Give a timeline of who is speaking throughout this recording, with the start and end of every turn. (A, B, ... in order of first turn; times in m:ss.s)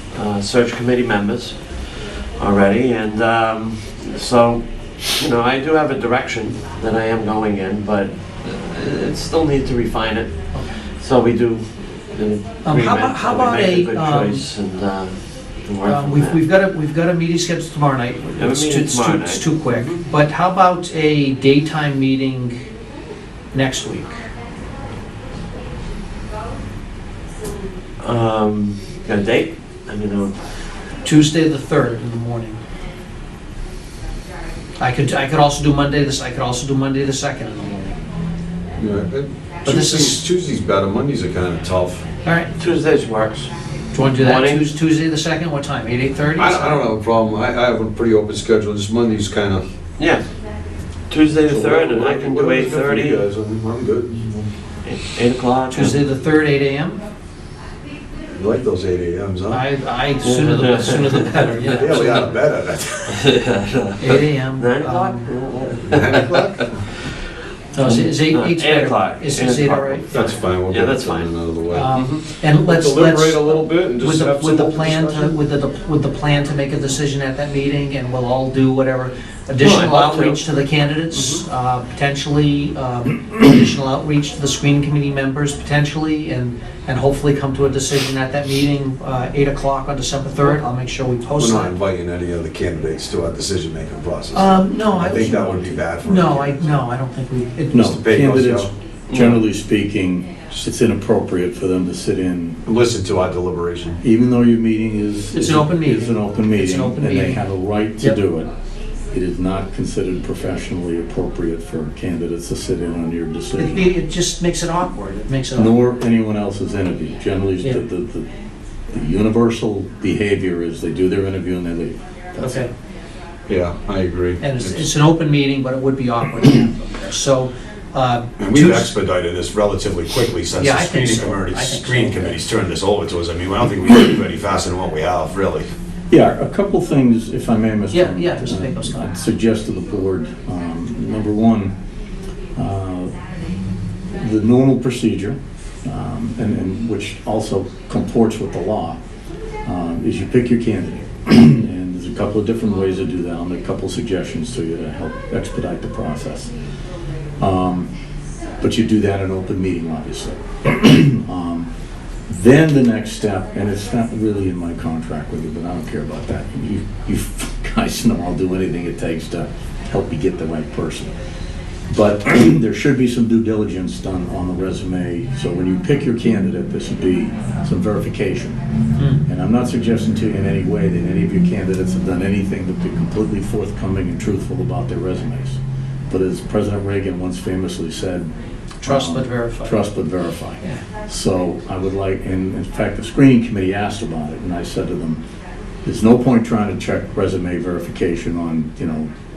0:00.1-0:10.4 A
0:11.0-0:16.4 A
0:12.6-0:14.5 B
0:15.8-0:22.5 B
0:18.3-0:20.0 A
0:23.5-0:24.1 B
0:28.0-0:30.4 A
0:31.0-0:32.6 B
0:34.8-0:38.0 B
0:38.8-0:42.0 C
0:39.6-0:40.2 B
0:42.2-0:42.5 B
0:42.6-0:43.5 A
0:43.9-0:46.7 B
0:44.1-0:44.6 A
0:46.4-0:49.7 C
0:50.0-0:50.2 A
0:51.1-0:53.3 A
0:51.4-0:54.5 C
0:54.8-0:56.0 A
0:55.7-0:57.0 B
0:58.3-0:59.6 C
0:59.5-1:02.3 B
1:00.2-1:02.2 A
1:01.7-1:03.2 C
1:03.1-1:06.8 A
1:04.0-1:05.3 B
1:05.9-1:06.7 C
1:07.8-1:10.3 B
1:07.8-1:11.3 A
1:10.1-1:15.4 C
1:11.7-1:31.7 B
1:11.9-1:12.2 A
1:19.6-1:20.4 A
1:21.1-1:21.4 C
1:31.4-1:36.7 C
1:34.3-1:37.9 B
1:37.7-1:42.6 D
1:37.7-1:38.7 C
1:39.1-1:39.4 A
1:42.7-1:44.0 C
1:44.0-1:48.5 D
1:45.3-1:47.4 B
1:49.1-1:53.9 D
1:53.6-1:55.8 B
1:55.6-1:58.3 D
1:58.9-2:02.6 D
2:02.4-2:02.7 B
2:03.5-2:04.9 C
2:04.4-2:08.9 B
2:08.4-2:15.7 C
2:10.6-2:12.4 B
2:16.1-2:21.7 D
2:17.9-2:19.1 B
2:22.6-2:23.2 D
2:24.2-2:29.0 D
2:29.6-2:36.5 D
2:37.4-2:37.9 D
2:38.6-2:41.7 D
2:42.3-2:51.1 D
2:51.9-2:58.6 D
2:59.3-3:05.6 D
3:06.1-3:08.3 D
3:08.8-3:09.8 B
3:08.8-3:15.2 D
3:15.8-3:19.1 D